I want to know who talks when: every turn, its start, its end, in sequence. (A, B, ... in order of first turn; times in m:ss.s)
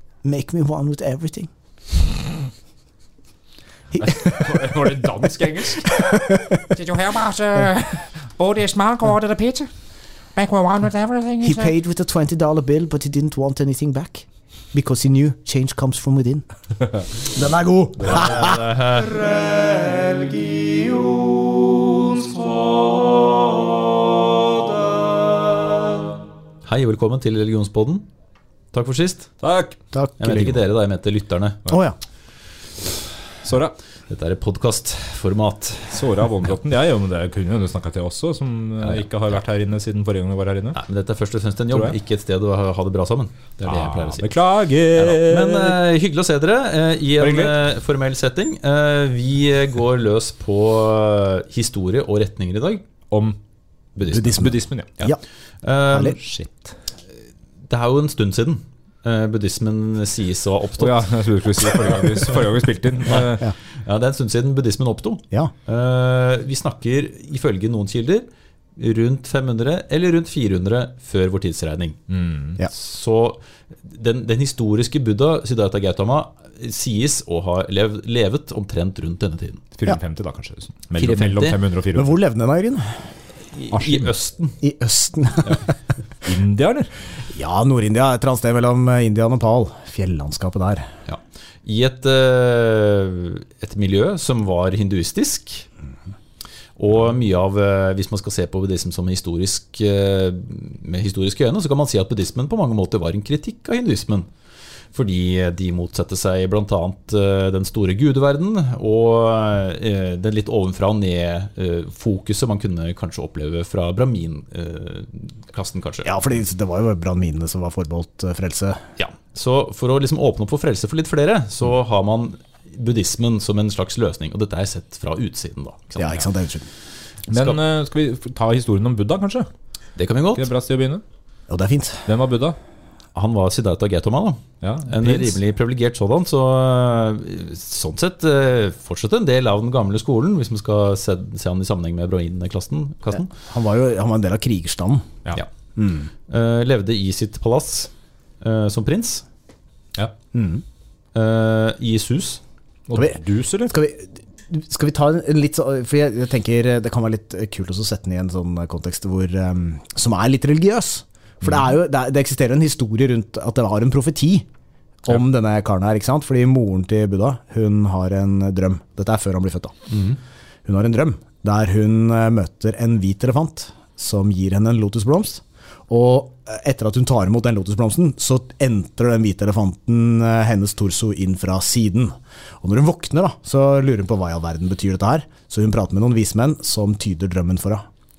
0:00.2-0:01.5 A
0:03.9-0:04.8 A
0:04.0-0:06.2 B
0:05.9-0:06.6 A
0:06.8-0:09.7 C
0:08.5-0:09.2 B
0:10.4-0:11.5 C
0:11.4-0:16.4 A
0:17.0-0:18.7 A
0:18.0-0:19.3 D
0:26.6-0:28.0 D
0:28.7-0:29.3 D
0:29.4-0:29.8 B
0:29.9-0:30.6 A
0:30.2-0:31.7 D
0:31.7-0:32.0 A
0:33.4-0:33.8 B
0:34.1-0:36.3 D
0:35.9-0:40.8 B
0:40.7-0:44.3 D
0:41.7-0:42.0 B
0:43.6-0:45.8 B
0:45.0-0:52.8 D
0:47.2-0:47.6 B
0:53.1-0:53.4 B
0:54.0-0:54.5 D
0:54.1-0:55.2 A
0:54.2-0:55.0 B
0:55.6-0:56.2 D
0:55.9-0:56.2 A
0:56.2-0:56.8 B
0:57.7-1:02.4 D
1:00.8-1:03.4 B
1:03.0-1:08.2 D
1:08.8-1:12.0 D
1:12.1-1:12.6 B
1:12.6-1:19.6 D
1:19.8-1:22.2 B
1:21.0-1:21.6 D
1:21.9-1:23.1 A
1:23.5-1:24.6 D
1:23.7-1:24.2 B
1:24.6-1:25.6 A
1:25.4-1:25.7 B
1:26.2-1:26.9 B
1:27.3-1:30.9 A
1:31.1-1:35.7 D
1:36.8-1:44.3 D
1:44.9-1:56.1 D
1:56.0-1:58.8 A
1:59.0-2:06.3 D
2:06.0-2:06.6 A
2:07.2-2:07.6 D
2:07.3-2:09.5 B
2:10.0-2:10.4 D
2:10.3-2:11.0 B
2:11.5-2:12.1 A
2:12.1-2:12.6 B
2:13.1-2:23.3 D
2:14.6-2:15.4 B
2:23.2-2:25.0 A
2:25.8-2:26.1 A
2:26.3-2:29.2 D
2:30.3-2:30.6 A
2:31.1-2:32.4 D
2:32.9-2:33.7 B
2:32.9-2:44.4 A
2:45.0-2:49.8 A
2:49.9-2:50.2 D
2:50.6-3:07.8 A